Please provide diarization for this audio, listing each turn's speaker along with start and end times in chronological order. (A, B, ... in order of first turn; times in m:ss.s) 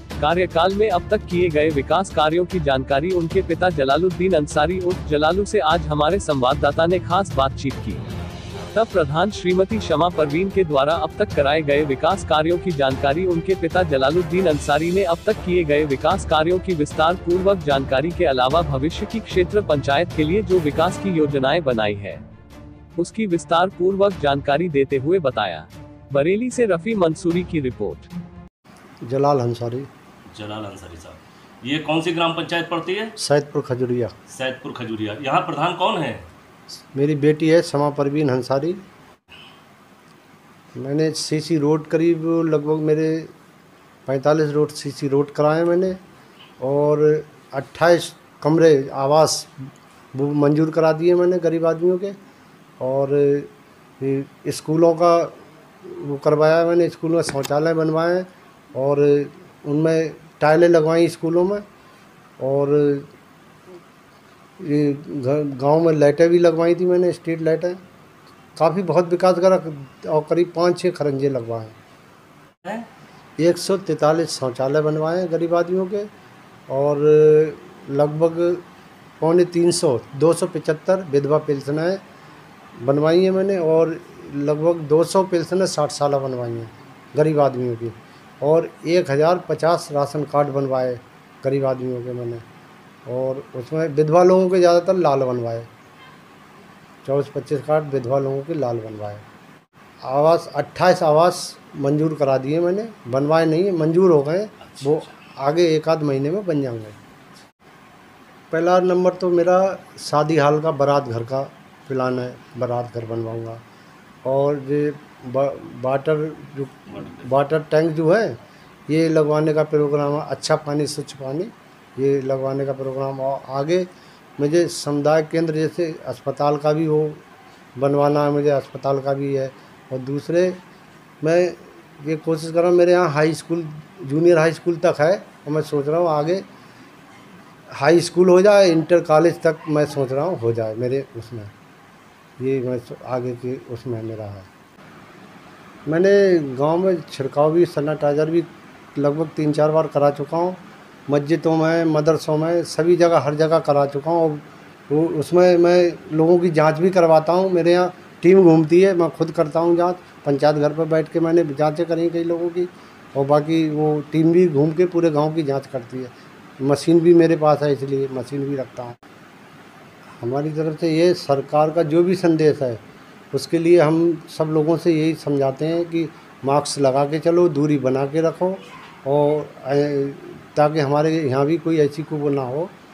0:00.2-0:08.0 A
0:08.7-0:22.2 A
0:23.0-0:28.1 A
0:29.0-0:29.9 B
0:30.3-0:33.1 C
0:33.2-0:34.2 B
0:34.3-0:36.3 C
0:36.9-0:38.8 B
0:40.8-0:43.3 B
0:44.1-0:46.0 B
0:46.6-0:49.5 B
0:50.1-0:52.2 B
0:52.8-1:01.6 B
1:02.4-1:03.1 B
1:04.6-1:07.8 B
1:08.6-1:11.8 B
1:13.4-1:16.1 B
1:16.7-1:18.6 B
1:19.2-1:22.0 B
1:22.8-1:32.4 B
1:33.1-1:35.7 B
1:37.0-1:39.2 B
1:40.0-1:47.0 B
1:48.5-1:53.6 B
1:54.2-2:07.2 B
1:57.0-1:57.3 C
2:07.8-2:10.6 B
2:11.2-2:16.5 B
2:17.7-2:21.5 B
2:22.4-2:24.5 B
2:25.9-2:49.0 B
2:50.2-3:02.7 B